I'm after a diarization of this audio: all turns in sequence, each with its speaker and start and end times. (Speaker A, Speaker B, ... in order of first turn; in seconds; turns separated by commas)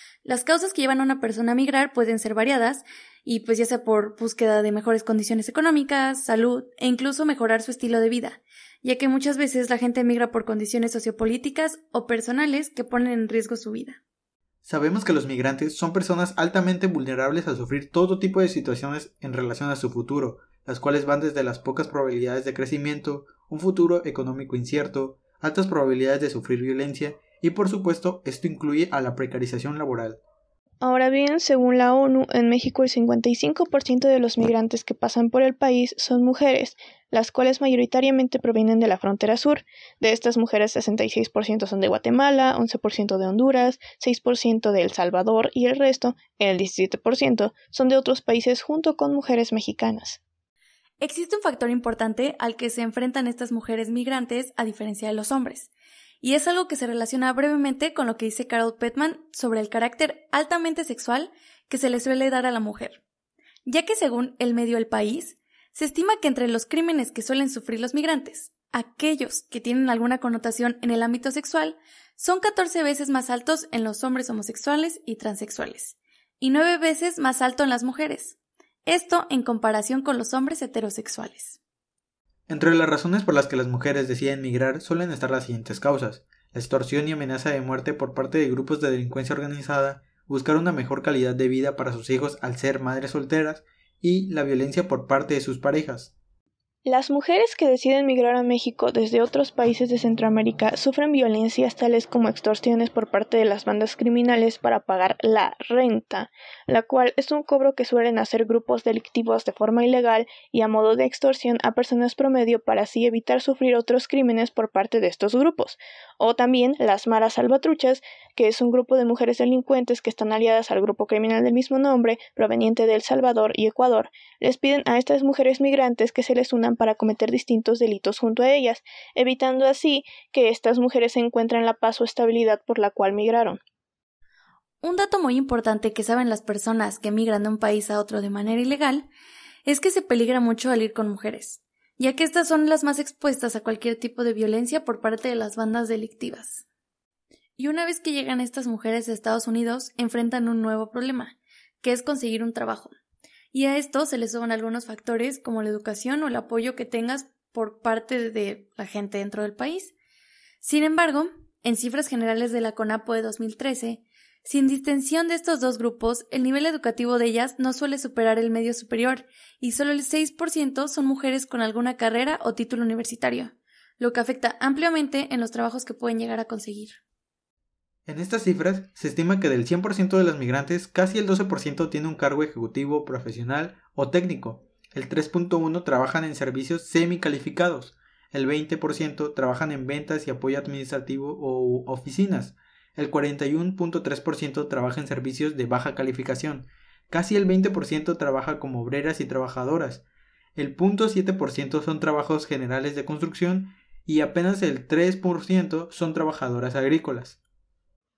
Speaker A: 0.2-14.0, Speaker B: 14.6-30.2, Speaker C: 30.8-50.2, Speaker A: 51.0-55.7, Speaker A: 56.2-63.0, Speaker A: 63.6-81.6, Speaker B: 82.5-96.1, Speaker C: 96.8-133.6, Speaker A: 134.8-139.1, Speaker A: 139.6-146.6, Speaker A: 147.6-152.9, Speaker A: 153.5-159.9, Speaker A: 160.6-177.0, Speaker B: 178.1-200.0, Speaker B: 200.6-207.4